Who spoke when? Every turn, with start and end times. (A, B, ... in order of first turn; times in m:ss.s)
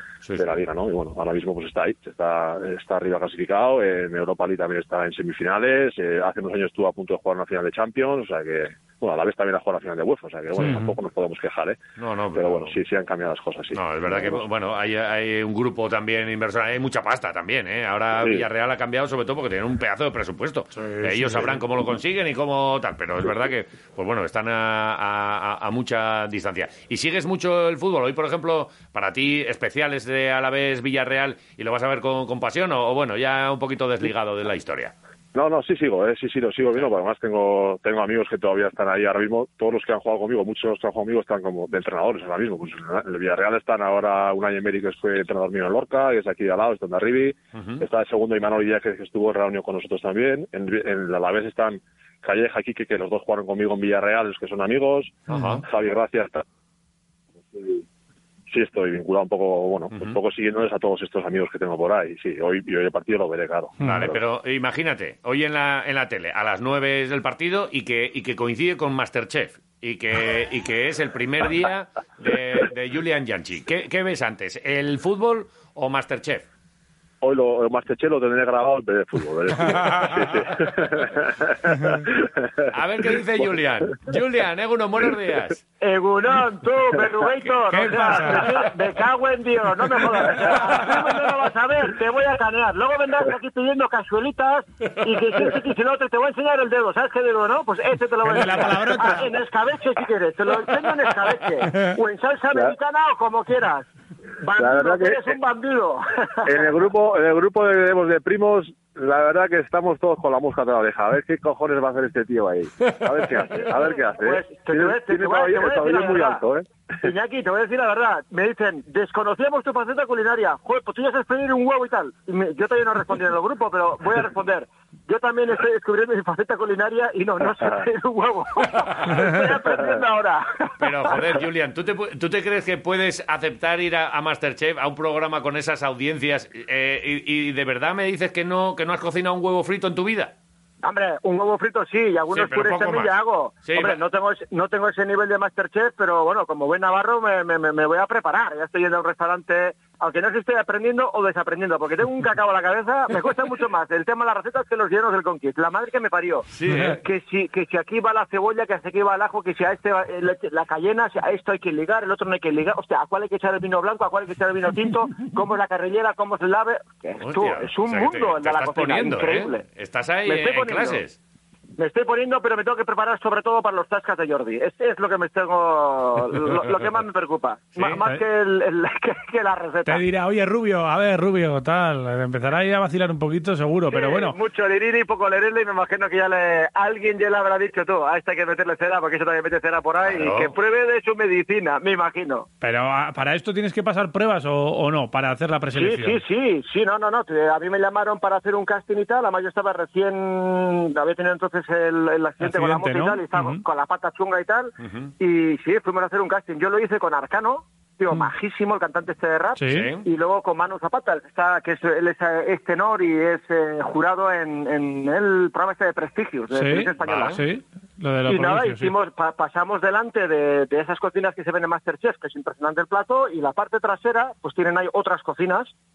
0:00.2-0:00.6 A
0:00.4-0:11.8 B
0:10.6-0:11.0 C
0:12.0-0:12.7 A
0:12.3-0:14.4 B
0:13.7-0:34.9 A
0:18.2-0:18.5 B
0:20.8-0:21.6 C
0:35.3-0:56.4 B
0:47.5-0:47.8 A
0:55.3-0:55.6 A
0:57.4-0:57.8 B
0:58.5-1:04.2 B
0:59.9-1:00.2 A
1:03.8-1:04.1 C
1:03.8-1:16.4 A
1:17.2-1:23.2 B
1:22.7-1:25.6 A
1:25.8-1:43.9 D
1:27.7-1:28.7 C
1:38.2-1:39.3 C
1:41.6-1:41.9 C
1:44.4-1:46.6 D
1:44.6-1:45.3 B
1:46.4-1:57.1 B
1:54.0-1:56.4 D
1:57.0-2:11.1 D
2:09.0-2:09.4 C
2:09.6-2:10.0 B
2:10.8-2:20.3 A
2:20.8-2:36.4 D
2:22.3-2:23.1 A
2:23.6-2:24.0 A
2:36.5-2:37.0 A
2:36.7-2:37.0 C
2:37.0-2:49.6 D
2:47.2-2:51.2 A
2:50.2-2:51.0 D
2:51.8-3:00.0 D
2:57.8-2:58.2 C
2:59.8-3:04.4 C
3:03.9-3:12.5 D
3:10.1-3:10.5 A
3:12.6-3:16.2 C
3:15.7-3:37.4 D
3:22.4-3:23.6 C
3:24.8-3:25.1 A
3:29.6-3:29.9 C
3:29.6-3:30.0 A
3:36.5-3:38.9 C
3:37.0-3:37.4 A
3:38.2-3:45.7 D